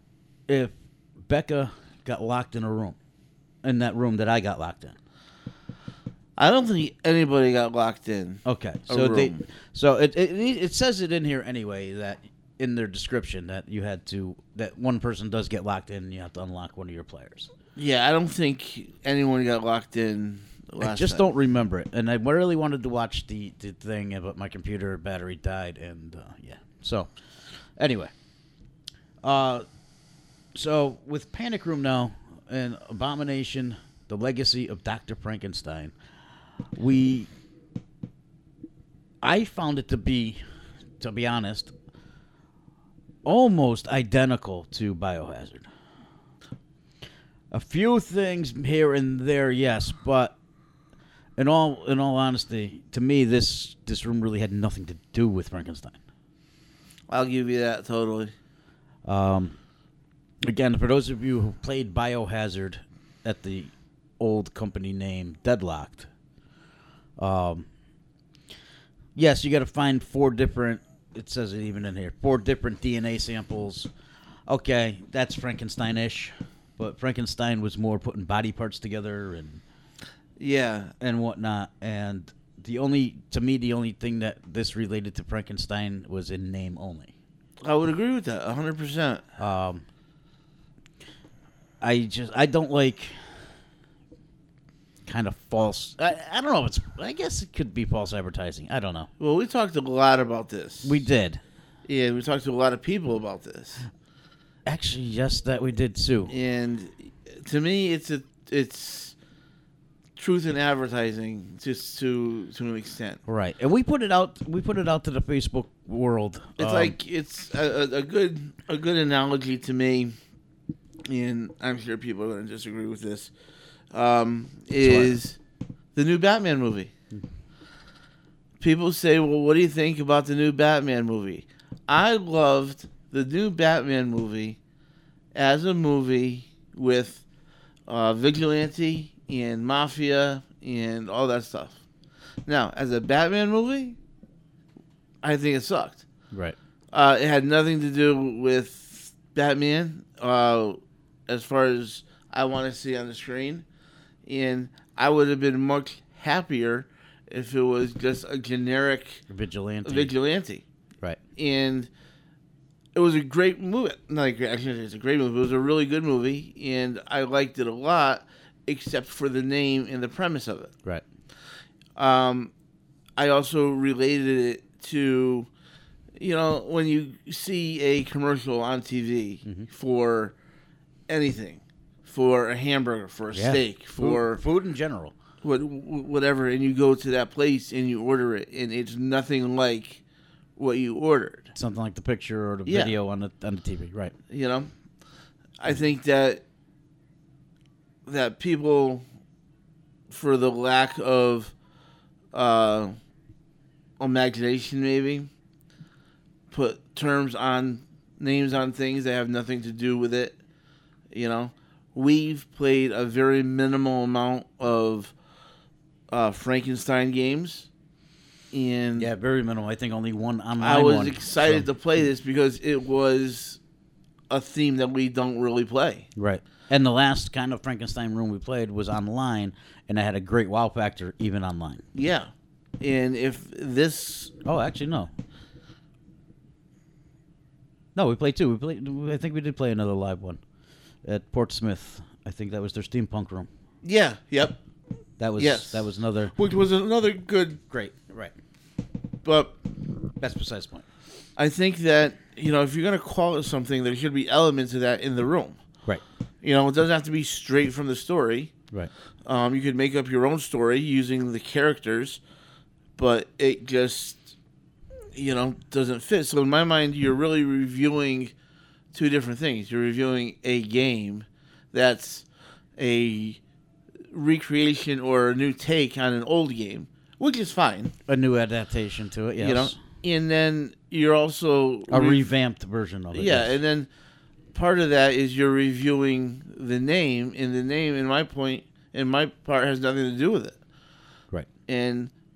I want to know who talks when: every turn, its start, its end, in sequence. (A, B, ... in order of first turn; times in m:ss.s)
0:00.5-0:03.0 A
0:03.6-0:05.0 A
0:06.4-0:09.4 B
0:08.4-0:17.5 A
0:17.8-0:21.3 B
0:20.8-0:27.1 A
0:27.8-0:28.1 A
0:29.2-0:29.6 A
0:30.6-0:35.9 A
0:36.8-0:37.3 A
0:39.2-0:40.4 A
0:41.0-0:41.7 A
0:43.2-0:45.7 A
0:47.5-0:50.4 A
0:51.4-0:56.0 A
0:57.1-0:58.3 B
0:59.0-0:59.6 A
1:00.4-1:06.1 A
1:07.2-1:07.7 A
1:09.2-1:13.9 A
1:14.5-1:19.6 A
1:20.4-1:20.9 B
1:21.0-1:27.1 A
1:27.6-1:29.2 B
1:29.4-1:29.8 A
1:31.8-1:33.4 A
1:35.1-1:39.1 A
1:39.2-1:41.0 B
1:40.8-1:41.4 A
1:41.9-1:43.8 B
1:44.7-1:46.3 A
1:46.3-1:49.2 B
1:50.2-1:53.2 B
1:53.3-1:57.0 A
1:56.6-2:00.2 B
2:01.1-2:03.3 B
2:03.9-2:05.4 B
2:04.8-2:05.2 A
2:06.0-2:06.9 B
2:08.6-2:14.6 B
2:15.4-2:17.2 B
2:17.9-2:21.8 B
2:22.5-2:24.0 B
2:25.2-2:26.0 B
2:26.9-2:33.6 B
2:34.2-2:39.2 B
2:39.3-2:40.1 A
2:39.8-2:40.6 B
2:41.4-2:41.9 B
2:43.0-2:50.7 B
2:52.0-2:52.5 B
2:53.2-2:55.5 B
2:56.2-3:00.4 B
3:01.1-3:04.4 B
3:03.3-3:05.1 A
3:05.4-3:10.0 B
3:10.6-3:11.5 B
3:11.5-3:14.1 A
3:12.7-3:12.9 B
3:14.3-3:14.7 B
3:15.6-3:16.4 B
3:18.1-3:19.0 B
3:20.1-3:21.5 B
3:22.3-3:23.0 B
3:24.0-3:25.3 B
3:26.5-3:30.4 B
3:31.1-3:35.1 B
3:36.1-3:37.7 B
3:38.5-3:39.1 B
3:39.0-3:41.7 A
3:40.6-3:43.6 B
3:44.3-3:46.1 B
3:46.2-3:51.8 A
3:52.0-3:54.3 B
3:54.4-3:55.1 A
3:58.0-4:00.4 A
4:01.0-4:03.5 A
4:03.8-4:04.6 B
4:05.2-4:06.4 A
4:05.4-4:07.6 B
4:07.7-4:08.3 A
4:09.2-4:09.6 B
4:10.2-4:10.8 A
4:11.4-4:15.6 B
4:16.4-4:18.5 B
4:19.2-4:22.2 B
4:23.0-4:24.3 B
4:25.2-4:28.3 B
4:28.9-4:32.2 B
4:32.8-4:33.4 B
4:34.1-4:37.9 B
4:38.1-4:39.8 A
4:39.4-4:42.2 B
4:41.9-4:43.6 A
4:43.1-4:43.9 B
4:44.5-4:50.6 B
4:51.7-4:52.1 B